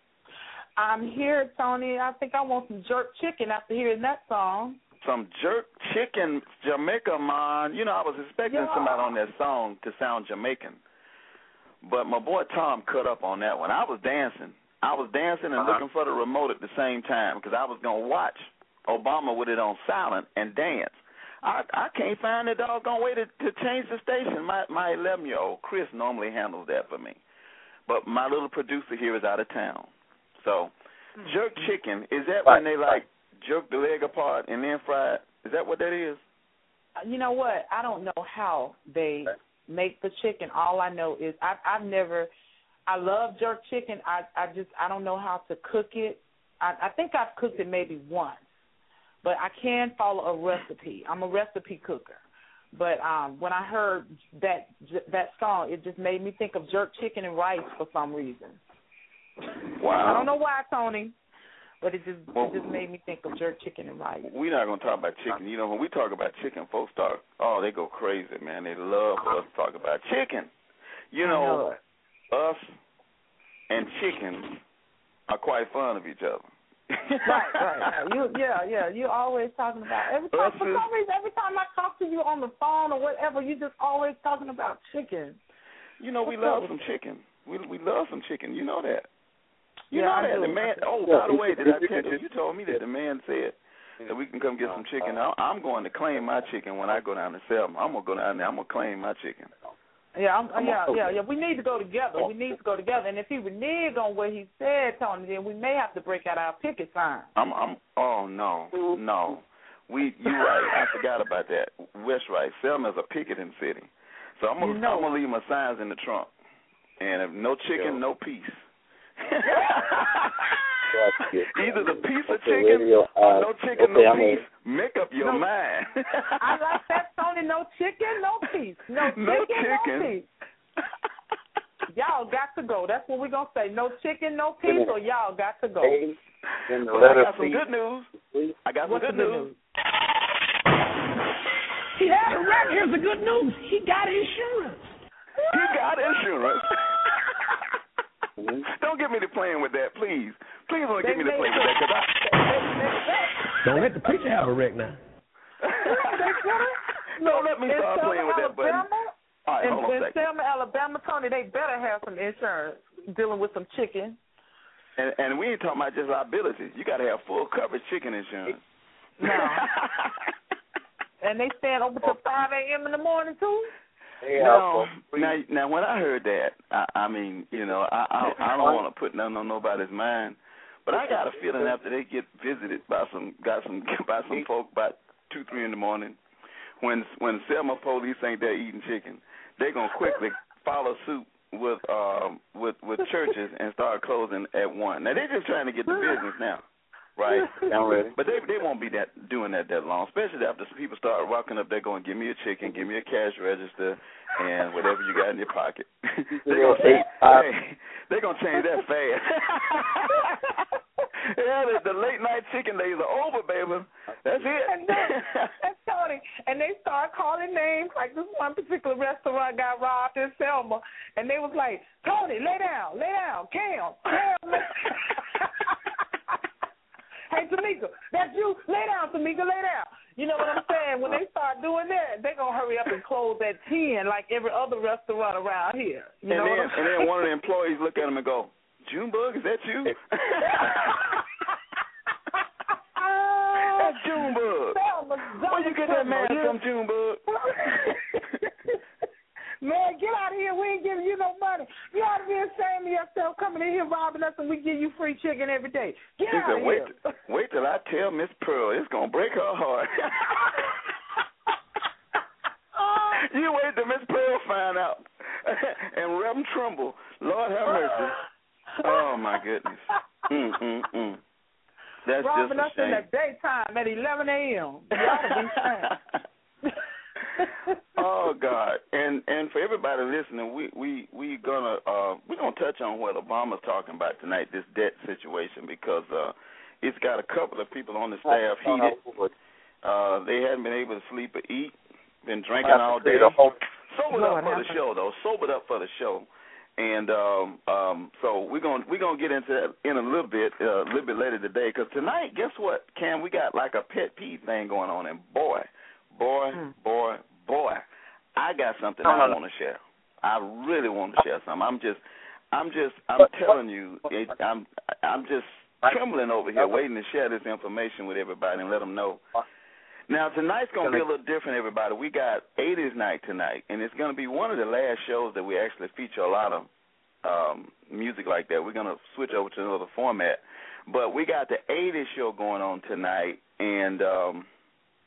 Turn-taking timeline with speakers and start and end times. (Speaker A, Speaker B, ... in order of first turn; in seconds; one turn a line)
Speaker A: 0.8-4.8
Speaker B: 5.0-10.8
Speaker A: 8.4-9.1
Speaker B: 11.8-27.2
Speaker B: 27.9-36.2
Speaker C: 32.4-33.0
Speaker A: 37.0-42.3
Speaker A: 42.9-48.4
Speaker A: 49.2-52.2
Speaker A: 52.7-58.6
Speaker B: 59.8-60.3
Speaker A: 60.0-61.1
Speaker A: 61.8-64.3
Speaker B: 62.3-62.7
Speaker B: 64.2-70.5
Speaker B: 71.1-71.6
Speaker A: 71.2-71.8
Speaker B: 72.3-72.7
Speaker B: 73.7-74.6
Speaker B: 75.3-77.9
Speaker A: 77.2-85.4
Speaker B: 80.3-80.9
Speaker B: 86.0-89.1
Speaker A: 86.2-86.8
Speaker B: 89.9-99.5
Speaker A: 89.9-90.8
Speaker C: 91.1-92.2
Speaker C: 94.1-95.2
Speaker A: 100.1-107.3
Speaker B: 107.3-116.3
Speaker A: 114.6-115.1
Speaker B: 117.0-118.6
Speaker B: 119.2-120.5
Speaker C: 120.9-124.4
Speaker B: 121.4-126.5
Speaker A: 125.2-125.5
Speaker A: 126.4-130.3
Speaker B: 129.0-130.2
Speaker A: 131.9-136.0
Speaker C: 134.7-134.9
Speaker C: 135.8-137.6
Speaker B: 136.9-138.1
Speaker C: 138.2-138.6
Speaker B: 138.6-139.5
Speaker A: 138.8-139.6
Speaker D: 141.9-144.8
Speaker B: 145.5-146.9
Speaker C: 148.4-148.6
Speaker B: 148.7-152.6
Speaker A: 151.0-151.8
Speaker A: 152.5-153.3
Speaker D: 153.6-155.0
Speaker B: 155.6-156.3
Speaker A: 155.8-164.2
Speaker B: 157.2-158.9
Speaker B: 159.4-160.2
Speaker B: 165.0-168.6
Speaker A: 169.2-169.6
Speaker B: 169.2-170.3
Speaker A: 171.2-173.7
Speaker C: 174.2-175.3
Speaker B: 174.3-186.2
Speaker C: 178.2-178.8
Speaker C: 180.9-181.8
Speaker B: 186.8-196.6
Speaker B: 197.2-210.4
Speaker C: 197.6-198.1
Speaker C: 206.3-207.4
Speaker B: 211.2-215.5
Speaker A: 214.7-225.7
Speaker A: 227.3-237.1
Speaker B: 236.3-241.1
Speaker A: 240.5-241.2
Speaker A: 242.9-244.0
Speaker B: 243.6-244.8
Speaker A: 244.7-246.6
Speaker B: 245.4-248.0
Speaker A: 247.3-248.1
Speaker A: 249.6-256.9
Speaker B: 256.3-260.6
Speaker B: 263.1-268.2
Speaker B: 268.8-271.2
Speaker B: 272.0-273.1
Speaker A: 272.2-275.9
Speaker B: 274.9-276.0
Speaker A: 277.4-277.7
Speaker B: 278.0-289.0
Speaker C: 288.2-289.3
Speaker B: 289.8-307.8
Speaker C: 292.6-293.6
Speaker A: 294.1-294.8
Speaker B: 308.4-312.0
Speaker C: 309.0-309.4
Speaker B: 312.5-319.2
Speaker B: 320.1-326.7
Speaker B: 327.2-334.5